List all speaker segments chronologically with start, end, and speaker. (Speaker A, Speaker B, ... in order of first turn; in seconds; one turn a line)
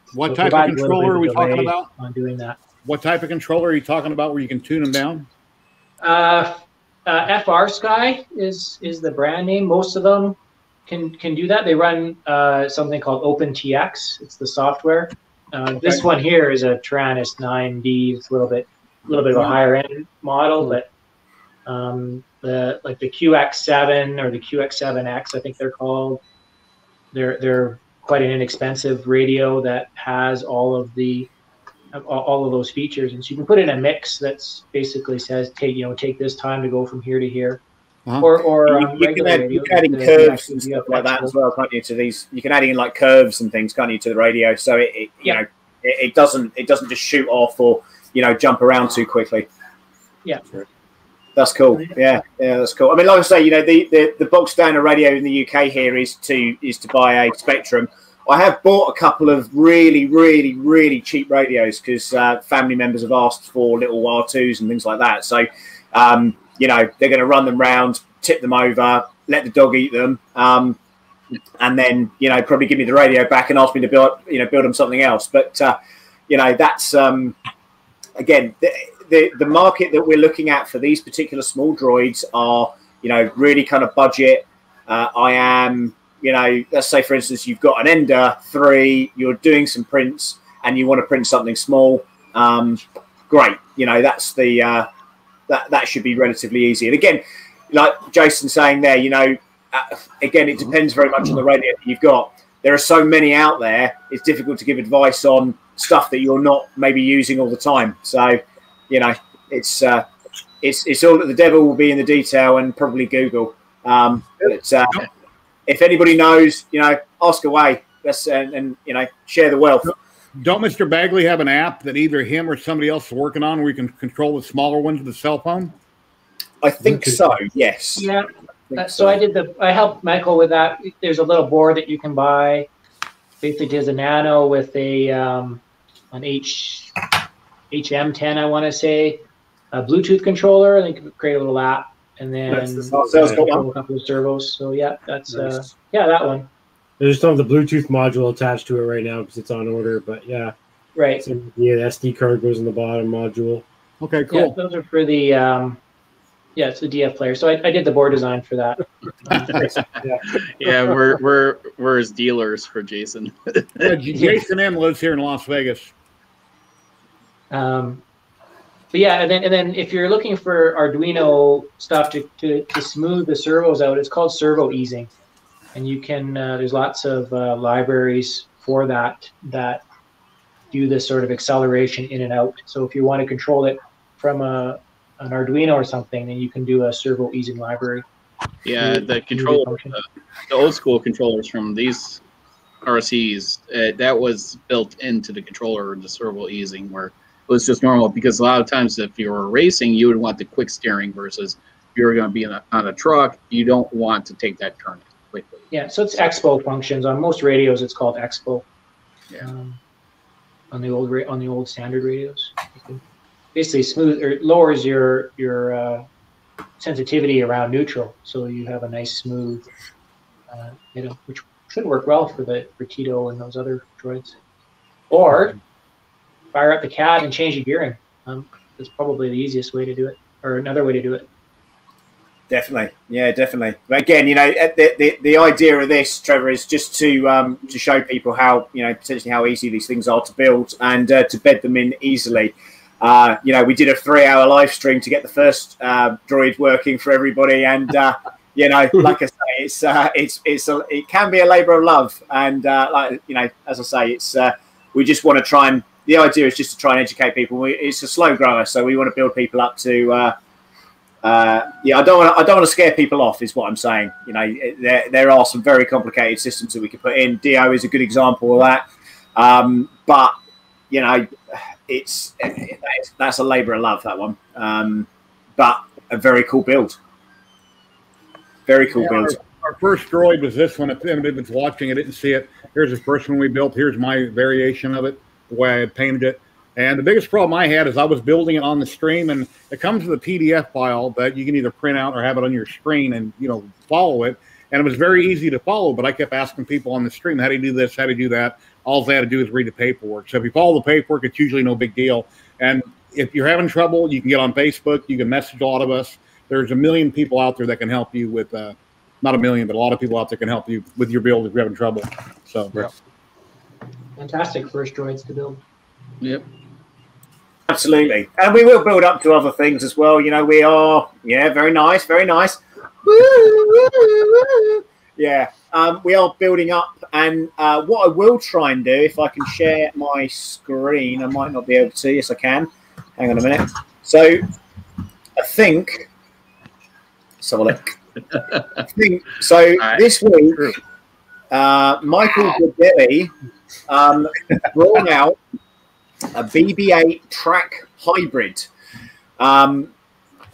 Speaker A: 0.1-1.9
Speaker B: 0.3-2.6
Speaker A: 2.8-5.3
Speaker B: 6.0-20.9
Speaker B: 21.7-26.2
Speaker B: 27.1-31.3
Speaker B: 31.9-37.6
Speaker B: 38.2-41.3
Speaker C: 38.7-49.5
Speaker C: 51.4-70.8
Speaker C: 71.6-75.8
Speaker C: 76.3-77.4
Speaker C: 78.2-94.9
Speaker C: 95.5-110.1
Speaker C: 110.6-115.1
Speaker C: 115.7-119.9
Speaker A: 119.8-125.7
Speaker C: 126.6-128.1
Speaker B: 128.0-128.3
Speaker C: 128.7-129.2
Speaker B: 128.8-132.7
Speaker B: 133.4-135.6
Speaker B: 136.1-137.0
Speaker B: 137.7-139.2
Speaker B: 139.7-146.5
Speaker D: 142.5-143.5
Speaker C: 142.9-143.7
Speaker D: 145.3-145.7
Speaker D: 147.0-150.5
Speaker B: 150.9-151.2
Speaker D: 151.2-153.6
Speaker A: 154.0-154.6
Speaker B: 154.3-155.8
Speaker B: 156.6-159.7
Speaker E: 160.4-163.9
Speaker A: 163.8-165.9
Speaker B: 167.5-168.0
Speaker B: 168.9-175.1
Speaker B: 175.7-179.8
Speaker B: 180.7-188.0
Speaker E: 188.7-190.0
Speaker B: 188.8-189.9
Speaker E: 190.5-192.2
Speaker E: 192.8-205.7
Speaker B: 205.7-208.7
Speaker B: 209.4-209.8
Speaker B: 210.7-213.0
Speaker B: 213.6-216.0
Speaker B: 216.8-219.7
Speaker B: 220.5-224.3
Speaker B: 225.1-225.6
Speaker B: 226.5-231.3
Speaker C: 232.5-260.4
Speaker C: 261.2-268.9
Speaker C: 269.4-270.3
Speaker C: 270.9-277.0
Speaker C: 278.7-279.4
Speaker A: 278.9-312.8
Speaker B: 314.2-315.6
Speaker C: 317.7-334.4
Speaker C: 335.4-336.1
Speaker C: 337.4-338.0
Speaker C: 338.9-340.7
Speaker E: 339.8-340.8
Speaker C: 341.5-343.3
Speaker C: 343.9-345.4
Speaker C: 346.3-348.7
Speaker C: 349.4-349.9